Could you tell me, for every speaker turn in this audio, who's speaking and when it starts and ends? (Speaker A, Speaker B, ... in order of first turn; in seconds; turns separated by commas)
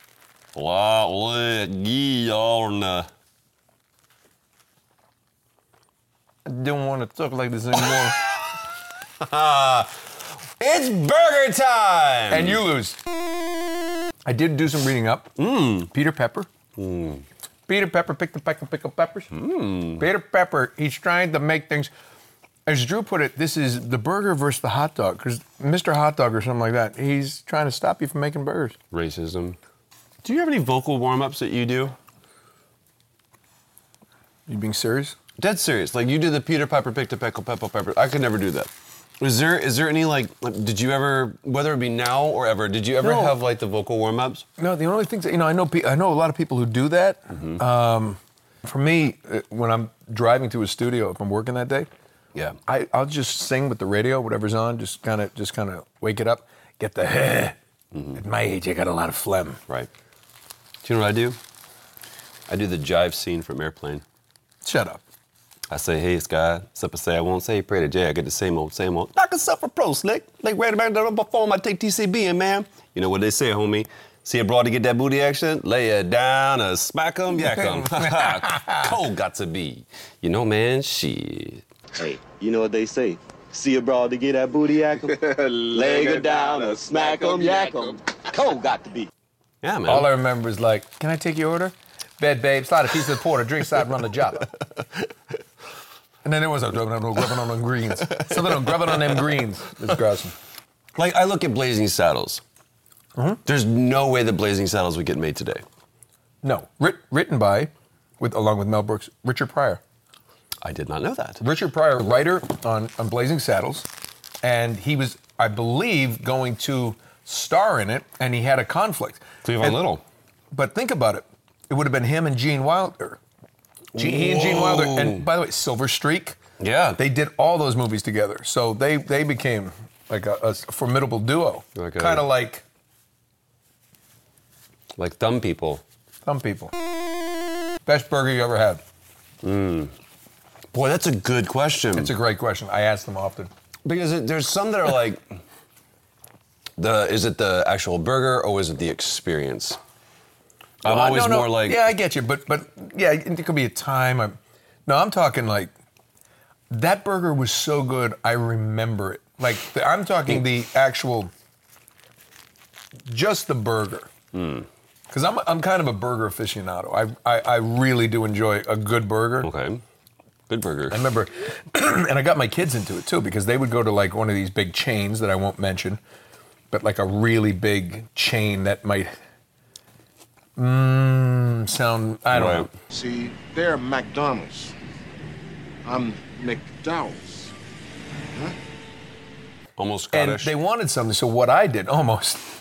Speaker A: 0.5-3.1, Speaker B: 6.4-8.2, Speaker A: 7.7-10.0, Speaker A: 10.6-12.6, Speaker B: 12.3-13.0, Speaker B: 14.2-16.5, Speaker A: 15.4-15.9, Speaker A: 16.8-17.2, Speaker B: 17.7-19.3, Speaker A: 19.3-20.1, Speaker B: 20.0-21.9, Speaker B: 22.7-28.8, Speaker A: 28.9-29.6, Speaker A: 30.2-31.9, Speaker B: 34.5-35.1, Speaker A: 35.4-44.4, Speaker B: 43.0-43.3, Speaker B: 44.6-51.9, Speaker A: 47.3-47.6, Speaker B: 52.7-57.5, Speaker A: 57.9-58.2, Speaker B: 58.1-59.6, Speaker A: 60.8-61.4, Speaker A: 62.5-64.0, Speaker B: 64.6-65.0, Speaker A: 65.7-81.6, Speaker B: 77.5-78.9, Speaker C: 82.0-89.1, Speaker A: 89.6-90.1, Speaker B: 89.8-94.5, Speaker B: 96.2-100.3, Speaker A: 98.0-99.3, Speaker A: 100.9-102.4, Speaker A: 103.5-105.6, Speaker B: 106.4-109.8, Speaker A: 110.6-111.4, Speaker B: 111.4-113.8, Speaker B: 114.4-119.8, Speaker A: 119.4-120.0, Speaker B: 120.5-123.2, Speaker A: 123.9-125.3, Speaker B: 123.9-126.4, Speaker A: 126.6-127.0, Speaker B: 127.0-132.6, Speaker A: 131.8-132.2, Speaker A: 134.9-135.8, Speaker B: 136.2-136.7, Speaker B: 137.8-138.8, Speaker A: 139.4-139.9, Speaker A: 140.7-142.1, Speaker B: 141.9-143.5, Speaker A: 143.8-145.4, Speaker A: 146.8-149.8, Speaker A: 150.8-151.9, Speaker B: 150.8-155.7, Speaker B: 156.7-161.3, Speaker B: 163.1-164.1, Speaker A: 164.3-164.7, Speaker B: 165.1-169.5, Speaker A: 169.4-169.8, Speaker A: 170.5-171.0, Speaker B: 170.9-176.0, Speaker B: 176.7-179.1, Speaker B: 180.6-182.7, Speaker A: 182.3-182.7, Speaker D: 182.9-184.7, Speaker D: 185.8-187.5, Speaker A: 189.8-190.5, Speaker B: 190.1-192.4